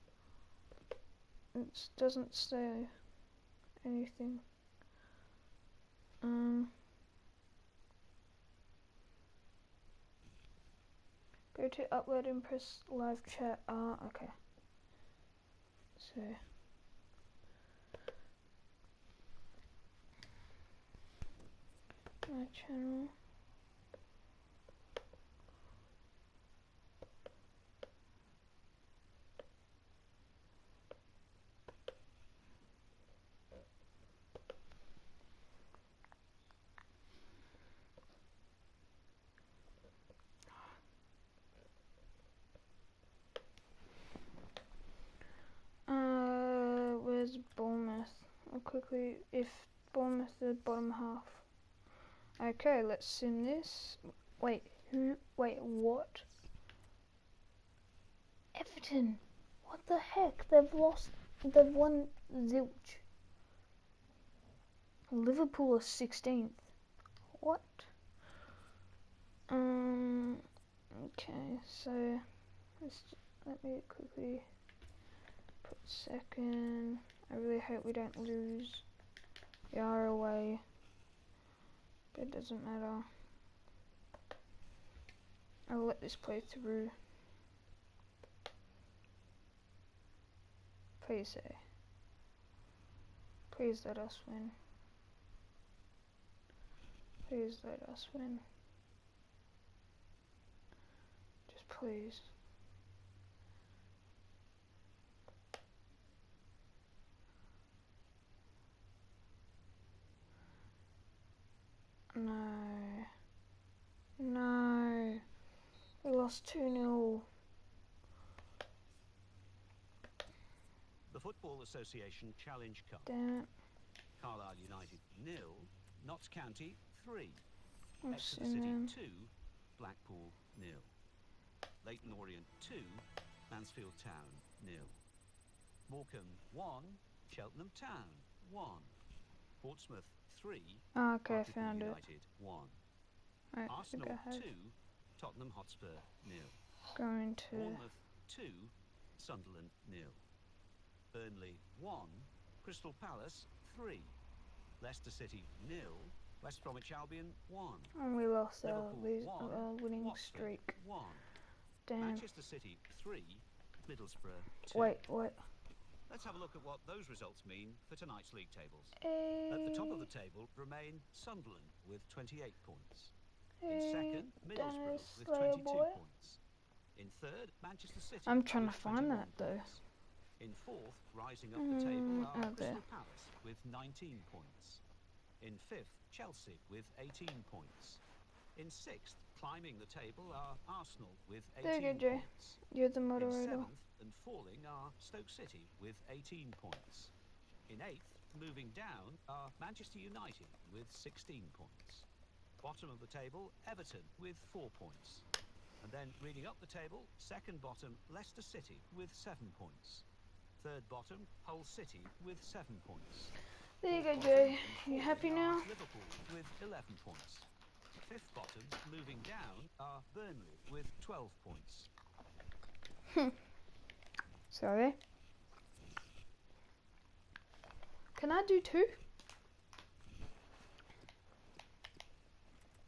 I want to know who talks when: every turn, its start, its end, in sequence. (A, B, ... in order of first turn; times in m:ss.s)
0:01.5-0:02.9 A
0:03.8-0:04.4 A
0:06.2-0:06.7 A
0:11.5-0:14.3 A
0:16.0-0:16.4 A
0:22.3-0:23.1 A
0:45.9-0:51.5 A
0:52.4-0:56.2 A
0:58.5-1:03.0 A
1:05.1-1:06.7 A
1:07.3-1:07.9 A
1:09.5-1:10.4 A
1:10.9-1:14.5 A
1:15.6-1:18.8 A
1:19.7-1:20.6 A
1:22.1-1:23.0 A
1:25.7-1:26.9 A
1:31.0-1:31.6 A
1:33.5-1:34.5 A
1:37.3-1:38.4 A
1:41.5-1:42.2 A
1:52.1-1:53.1 A
1:54.2-1:55.2 A
1:56.0-1:57.3 A
2:01.1-2:03.1 B
2:03.0-2:03.5 A
2:04.2-2:07.4 B
2:08.0-2:08.9 A
2:08.1-2:10.9 B
2:11.8-2:15.0 B
2:15.9-2:19.0 B
2:19.6-2:22.8 B
2:20.9-2:22.0 A
2:23.5-2:24.4 A
2:23.7-2:26.6 B
2:26.9-2:27.8 A
2:27.5-2:30.2 B
2:31.1-2:34.2 B
2:34.8-2:38.0 B
2:37.9-2:40.8 A
2:38.6-2:41.3 B
2:41.9-2:42.2 A
2:42.0-2:45.0 B
2:44.7-2:45.4 A
2:46.1-2:53.1 B
2:49.0-2:50.1 A
2:53.6-2:56.0 A
2:53.7-2:56.4 B
2:56.9-2:59.8 B
2:58.2-2:59.7 A
3:00.4-3:04.8 B
3:01.5-3:02.8 A
3:05.4-3:08.0 B
3:08.5-3:12.6 B
3:11.6-3:13.7 A
3:13.2-3:17.1 B
3:17.7-3:22.1 B
3:22.6-3:25.3 B
3:25.8-3:30.0 B
3:30.6-3:41.9 B
3:33.8-3:35.7 A
3:44.5-3:45.0 A
3:48.1-3:49.0 A